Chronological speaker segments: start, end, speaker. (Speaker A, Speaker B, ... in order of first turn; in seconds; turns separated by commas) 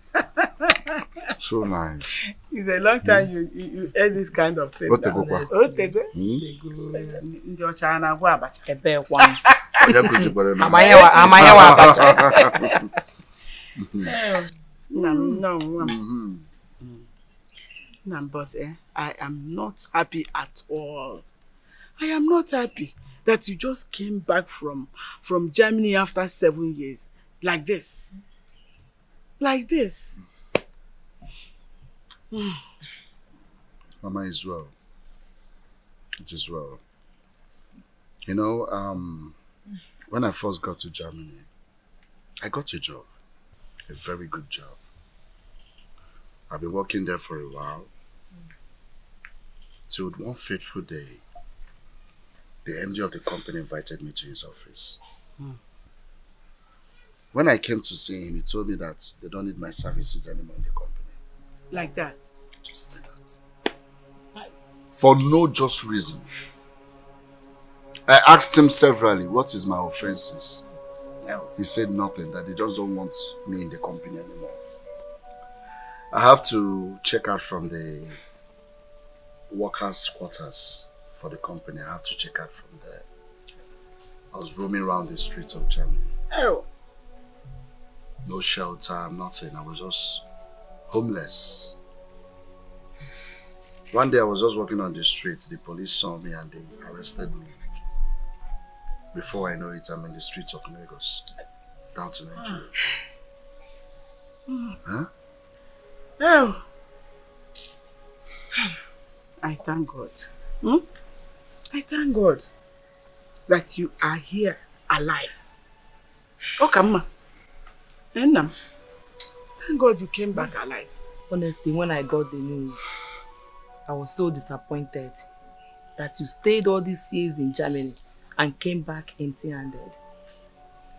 Speaker A: 0.1-0.9, Speaker B: 1.4-2.1, Speaker A: 2.5-6.1, Speaker B: 3.0-3.3, Speaker B: 4.9-5.5, Speaker C: 5.1-7.2, Speaker B: 6.1-6.4, Speaker A: 6.9-8.7, Speaker C: 8.7-9.4, Speaker A: 9.8-10.1, Speaker B: 9.8-12.7, Speaker C: 10.6-12.8, Speaker A: 10.9-12.0, Speaker B: 13.8-14.2, Speaker A: 14.0-15.9, Speaker B: 15.8-16.4, Speaker A: 16.8-17.1, Speaker A: 18.0-21.2, Speaker A: 22.0-28.1, Speaker A: 29.4-30.2, Speaker A: 32.3-32.6, Speaker B: 34.0-34.7, Speaker B: 36.2-36.8, Speaker B: 38.2-39.4, Speaker B: 40.1-41.5, Speaker B: 42.4-43.1, Speaker B: 43.9-44.8, Speaker B: 46.5-47.9, Speaker B: 49.9-51.2, Speaker B: 52.6-55.0, Speaker B: 57.3-61.2, Speaker A: 61.7-62.3, Speaker B: 62.6-63.4, Speaker B: 64.9-66.3, Speaker B: 68.1-70.6, Speaker A: 71.2-71.5, Speaker B: 71.5-74.6, Speaker B: 76.1-78.2, Speaker B: 79.5-83.0, Speaker B: 84.3-86.1, Speaker A: 86.3-86.7, Speaker B: 88.2-90.2, Speaker B: 90.9-91.8, Speaker B: 93.9-97.6, Speaker B: 99.1-101.2, Speaker B: 101.9-102.7, Speaker A: 104.5-104.8, Speaker A: 106.2-106.6, Speaker A: 109.4-110.8, Speaker A: 111.7-112.5, Speaker A: 113.5-115.5, Speaker A: 116.6-117.1, Speaker A: 118.1-118.5, Speaker A: 119.6-120.9, Speaker C: 121.3-122.9, Speaker C: 123.8-125.3, Speaker C: 126.0-130.4